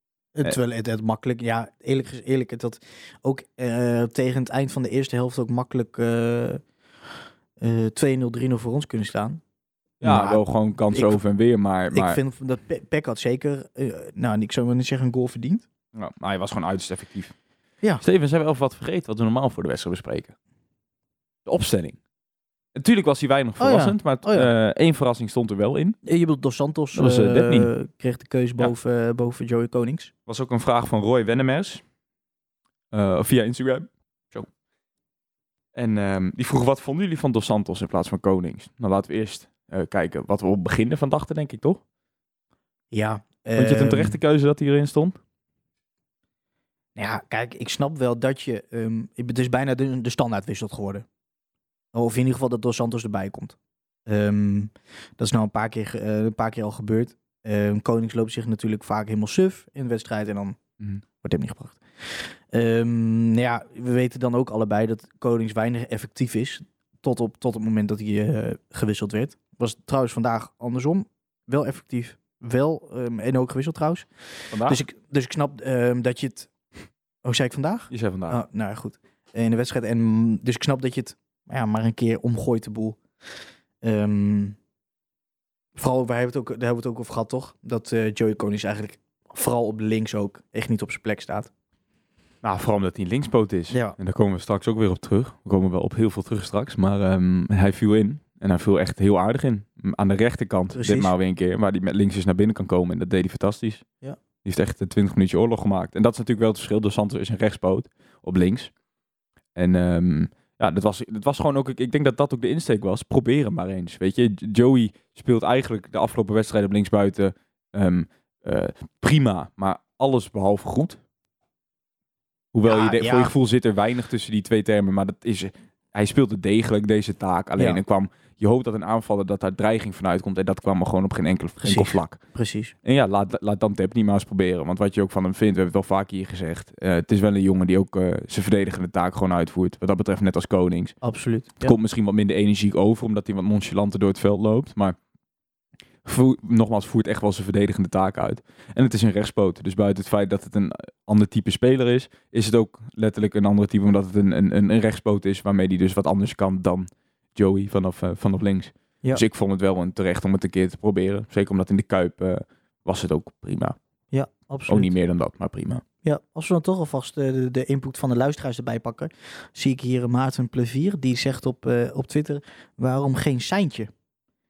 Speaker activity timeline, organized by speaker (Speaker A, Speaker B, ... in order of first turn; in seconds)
Speaker A: 0.3-6.6, 7.6-9.4, 10.0-11.2, 11.9-15.7, 23.6-24.5, 26.1-30.1, 42.9-44.2, 47.0-51.1, 51.9-60.6, 61.2-76.5, 77.2-83.0, 83.8-84.6, 85.8-91.5, 93.7-94.0, 100.8-101.1, 122.6-123.3, 131.6-132.7, 141.0-141.8, 164.1-164.9, 166.0-173.9
Speaker B: 10.0-12.2, 15.9-17.3, 18.0-20.4, 21.5-22.0, 22.8-26.0, 26.9-27.7, 30.3-31.8, 32.9-34.5, 35.8-41.8, 43.6-45.2, 74.5-74.8, 77.9-78.4, 92.4-103.8, 104.4-108.7, 109.5-121.0, 122.5-132.2, 132.8-140.9, 141.6-145.0, 146.1-163.8, 164.7-165.8